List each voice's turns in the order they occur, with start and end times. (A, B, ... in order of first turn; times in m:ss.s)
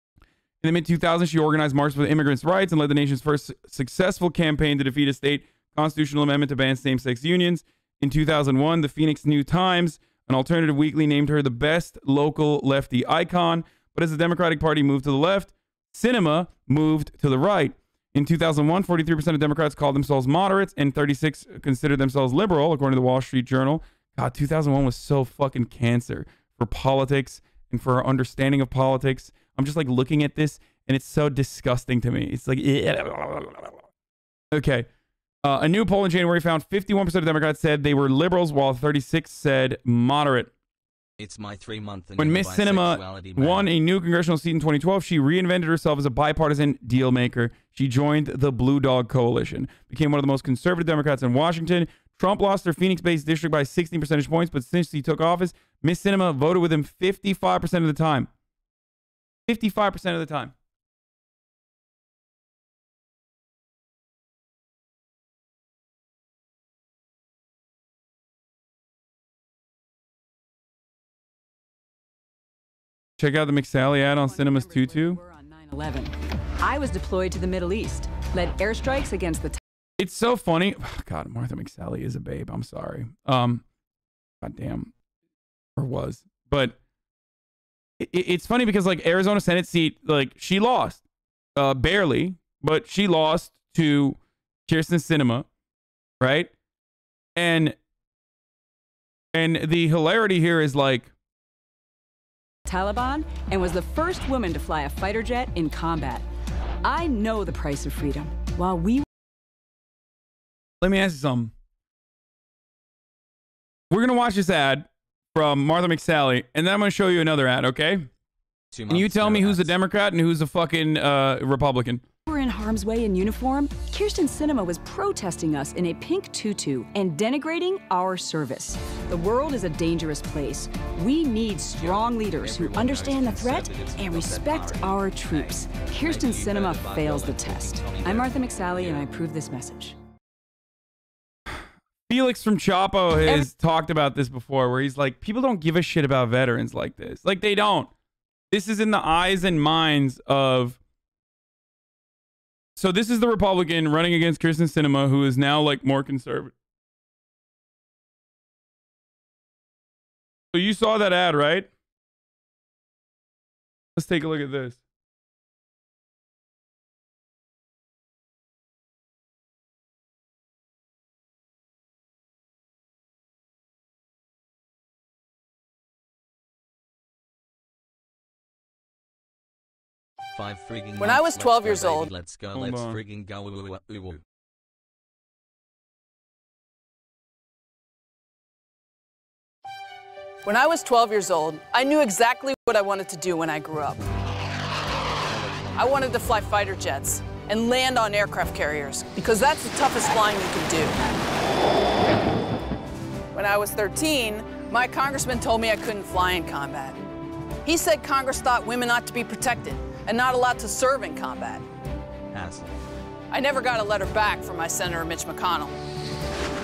0:00.6-0:33.8 A
0:34.5-0:34.9 A
0:35.4-0:40.5 A
0:41.2-0:43.7 B
0:42.2-0:58.3 A
0:59.5-1:00.5 A
1:13.2-1:15.2 A
1:14.0-1:19.6 C
1:20.0-1:23.6 A
1:24.4-1:24.9 A
1:25.8-1:26.8 A
1:28.0-1:31.0 A
1:31.6-1:35.5 A
1:36.2-1:36.5 A
1:37.4-1:37.8 A
1:39.3-1:41.1 A
1:42.6-1:46.2 C
1:46.8-1:49.0 C
1:50.8-1:51.5 A
1:53.9-1:58.1 A
1:58.7-1:59.7 B
1:58.9-2:02.0 A
2:02.3-2:20.0 C
2:11.8-2:19.1 B
2:21.5-2:27.9 A
2:28.5-2:30.8 A
2:32.8-2:36.5 A
2:40.5-2:41.7 A
2:44.0-2:44.8 A
3:00.3-3:04.2 B
3:01.0-3:02.1 D
3:02.5-3:03.0 A
3:10.4-3:14.0 D
3:15.0-3:16.2 B
3:15.8-3:21.0 D
3:23.3-3:27.0 D
3:27.6-3:31.6 D
3:32.3-3:32.7 B
3:33.3-3:35.8 D